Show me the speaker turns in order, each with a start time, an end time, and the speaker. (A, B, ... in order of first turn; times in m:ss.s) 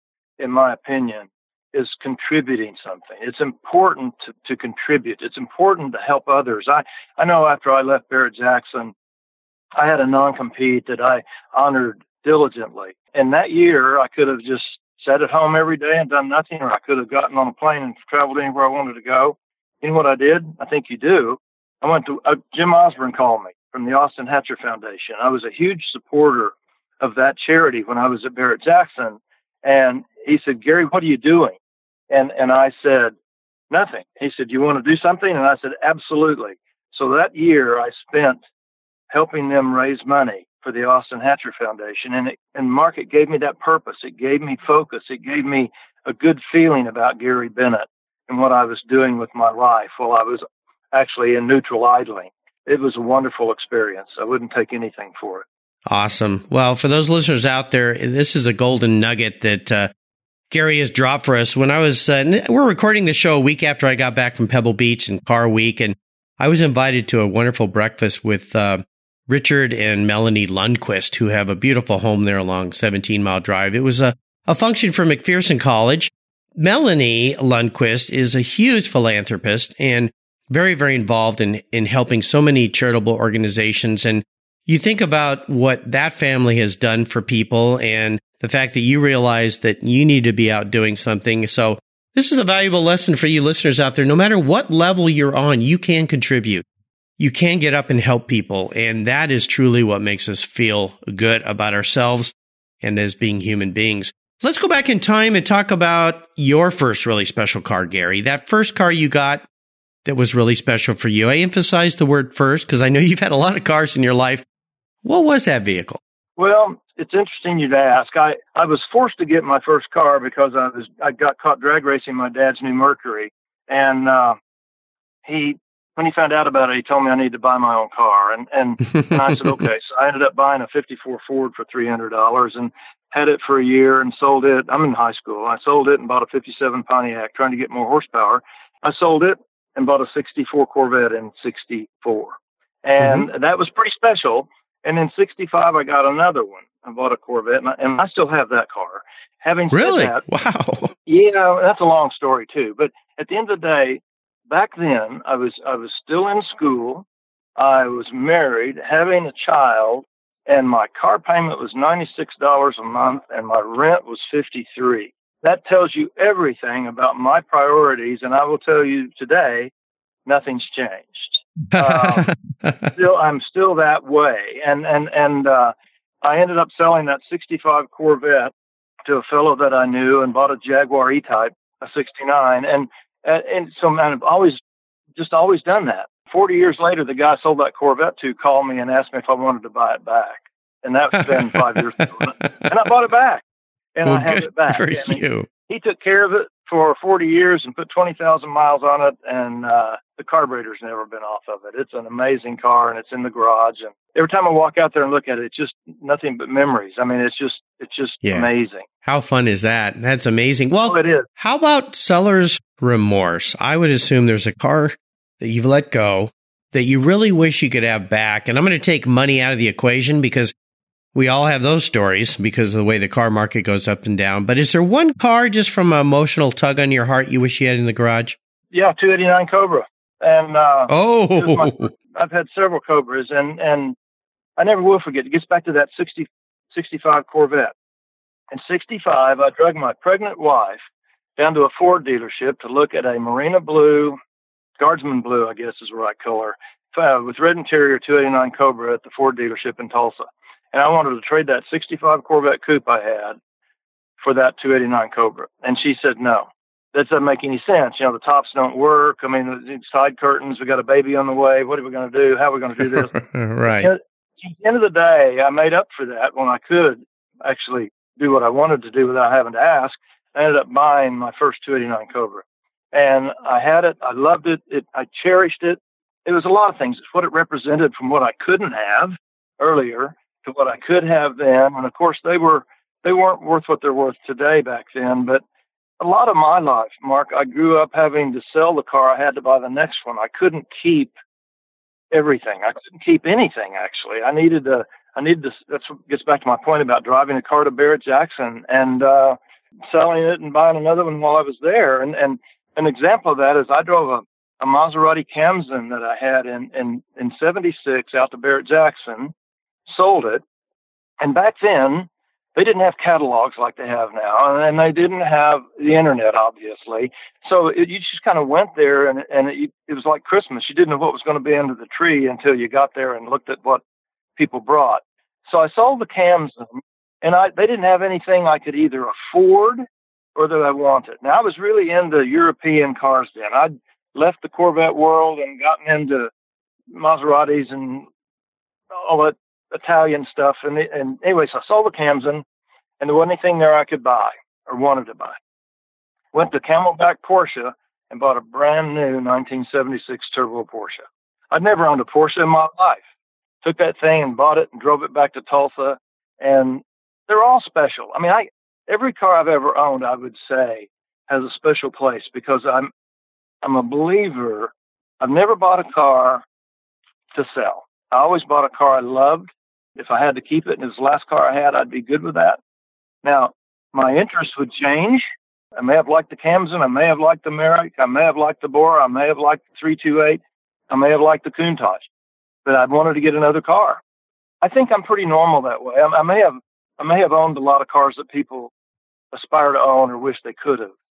0:00.4-0:08.9 A
0:09.8-0:31.6 A
0:32.1-0:33.1 A
0:33.7-0:38.4 A
0:39.1-0:55.4 A
0:55.9-0:59.9 B
1:00.5-1:36.6 B
1:37.2-1:49.4 B
1:50.0-1:54.4 B
1:55.0-1:56.0 B
1:56.4-2:04.4 A
2:05.2-2:30.2 A
2:08.9-2:09.2 B
2:23.0-2:23.3 B
2:29.7-2:30.9 B
2:31.1-2:37.0 A
2:37.6-2:49.7 A
2:50.2-2:52.3 A
2:51.7-2:52.9 B
2:52.9-2:58.5 A
2:59.0-3:04.6 A
3:05.2-3:13.4 A
3:13.9-3:28.8 A
3:14.0-3:15.5 B
3:29.0-3:40.5 B
3:30.9-3:31.3 A
3:41.1-3:48.4 B
3:48.7-3:54.0 A
3:50.9-3:51.9 B
3:54.6-3:57.7 A
3:58.5-4:00.8 A
4:01.4-4:04.2 A
4:04.8-4:13.4 A
4:14.2-4:23.1 A
4:22.9-4:23.9 B
4:23.7-4:45.4 A
4:46.0-4:51.1 A
4:52.1-5:09.3 A
5:09.8-5:10.4 A
5:11.2-5:23.8 A
5:24.4-5:36.3 A
5:36.9-5:38.1 A
5:38.9-5:42.4 A
5:43.0-5:45.4 A
5:46.3-5:53.0 A
5:53.6-6:02.9 A
6:03.6-6:06.4 A
6:07.3-6:12.6 A
6:13.2-6:15.2 A
6:15.8-6:22.0 A
6:22.6-6:24.0 A
6:24.6-6:28.7 A
6:29.3-6:30.9 A